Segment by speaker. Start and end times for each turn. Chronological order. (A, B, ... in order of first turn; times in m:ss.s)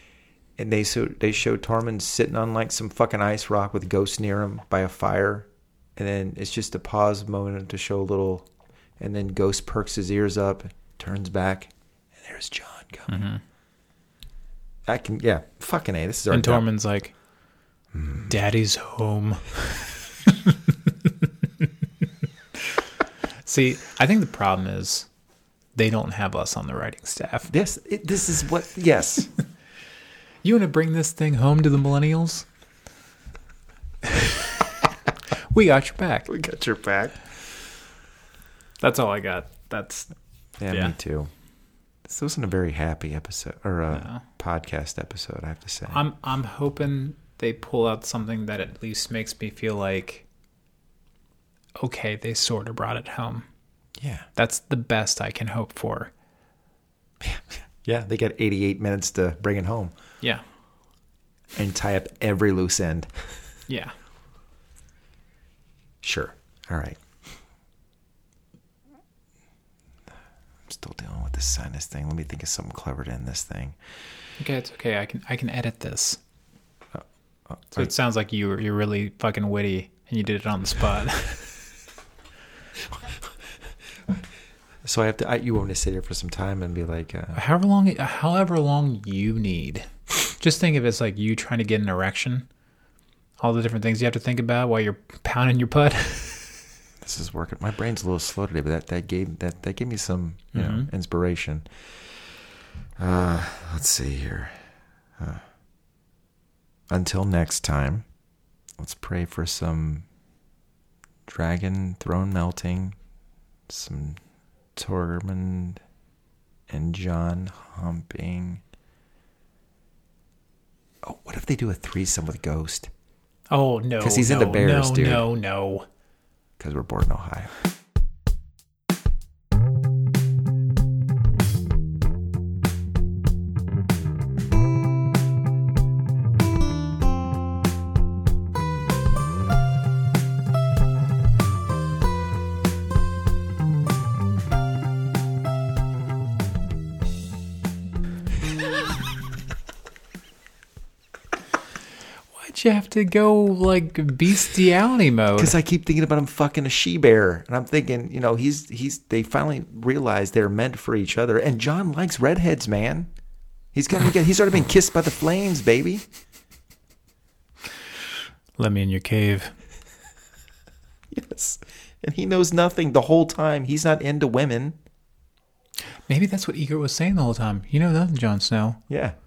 0:00.6-0:08.5 A
0:09.0-0:13.1 A
0:13.1-0:13.4 B
0:14.9-0:16.6 A
0:16.3-0:17.1 B
0:17.9-0:18.3 A
0:18.3-0:20.6 B
0:23.4-0:25.1 B
0:25.7-0:27.5 B
0:27.5-0:29.3 A
0:30.4-0:32.4 B
0:34.0-0:36.3 B
0:36.3-0:37.3 A
0:38.8-0:40.1 B
0:40.6-0:41.3 A
0:40.7-0:40.9 B
0:42.0-0:46.0 A
0:43.9-0:44.2 B
0:45.9-0:50.2 B
0:51.8-0:53.4 B
0:54.0-0:54.3 A
0:54.3-0:56.1 B
0:57.2-0:59.9 A
1:01.5-1:03.1 A
1:03.7-1:03.9 B
1:06.0-1:07.0 A
1:10.7-1:13.8 A
1:14.4-1:16.2 B
1:16.9-1:17.9 A
1:17.7-1:21.5 B
1:22.9-1:23.3 A
1:23.9-1:24.2 A
1:24.8-1:27.4 A
1:27.3-1:32.5 B
1:33.4-1:36.6 B
1:37.0-1:42.2 A
1:40.5-1:40.9 B
1:43.0-1:44.6 A
1:45.2-1:45.4 A
1:46.9-1:48.0 A
1:48.8-1:50.0 A
1:51.3-1:53.0 A
1:53.7-1:54.2 A
1:54.7-1:55.8 A
1:56.7-1:58.6 A
2:01.0-2:02.9 A
2:03.5-2:05.9 B
2:04.0-2:05.3 A
2:06.6-2:07.6 A
2:32.3-2:35.5 B
2:35.4-2:43.1 A
2:43.7-2:46.0 A
2:48.6-2:49.5 B
2:51.1-2:54.8 A
2:56.1-2:58.8 B
2:58.9-2:59.1 A